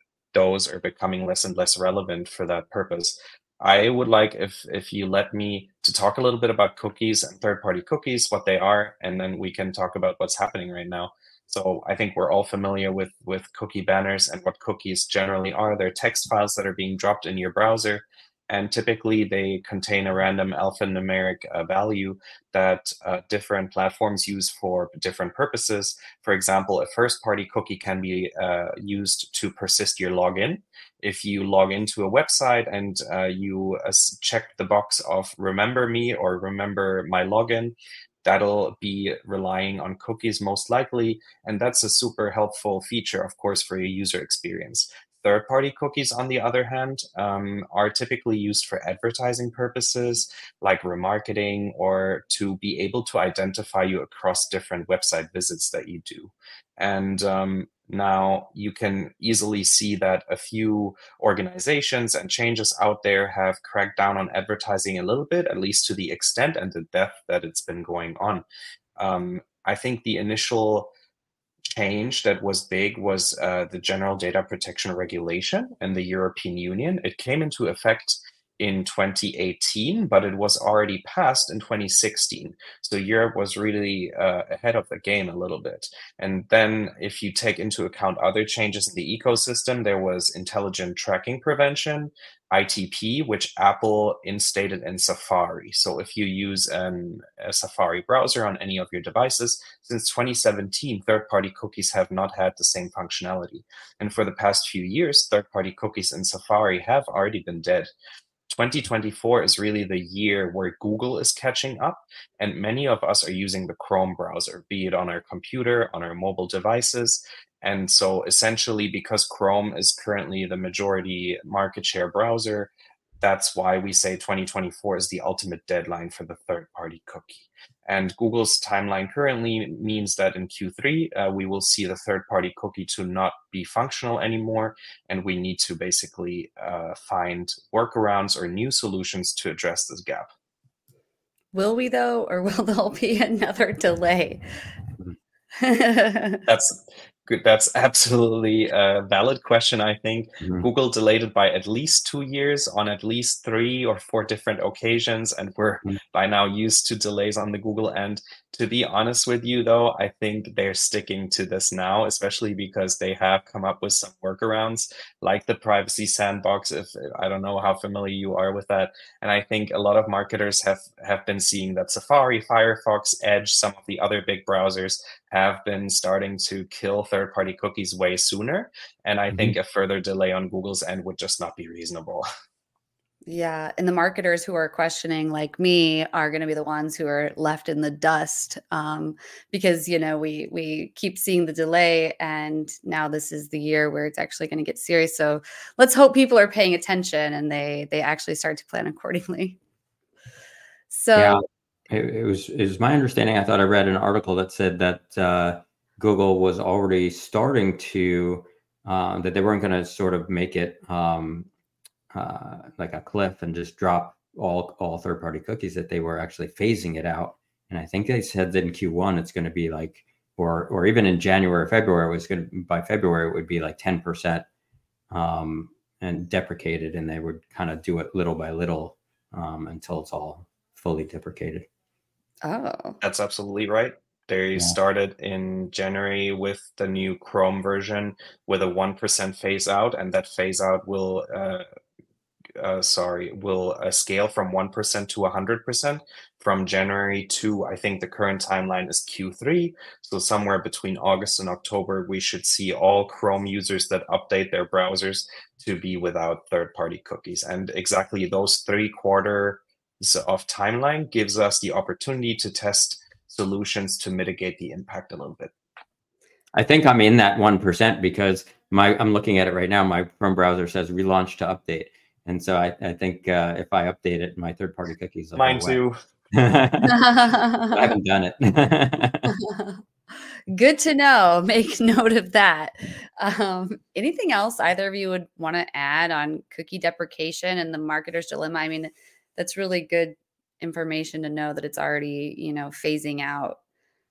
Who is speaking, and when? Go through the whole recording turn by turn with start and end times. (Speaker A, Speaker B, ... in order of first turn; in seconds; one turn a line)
Speaker A: 0.3-68.4
Speaker A: 69.0-70.9
Speaker A: 71.7-107.9
Speaker A: 108.5-140.3
Speaker B: 141.5-144.4
Speaker B: 145.6-146.4
Speaker A: 146.5-182.2
Speaker C: 150.4-150.7
Speaker C: 179.3-179.6
Speaker B: 183.3-199.6
Speaker B: 200.9-201.4
Speaker C: 201.2-211.5
Speaker C: 212.1-224.5
Speaker C: 225.1-231.7
Speaker B: 232.4-233.0
Speaker A: 233.0-241.6
Speaker A: 242.6-265.5
Speaker C: 266.6-275.8
Speaker A: 275.4-275.9
Speaker C: 276.3-279.4
Speaker B: 276.8-277.9
Speaker B: 279.3-279.8
Speaker B: 280.5-293.6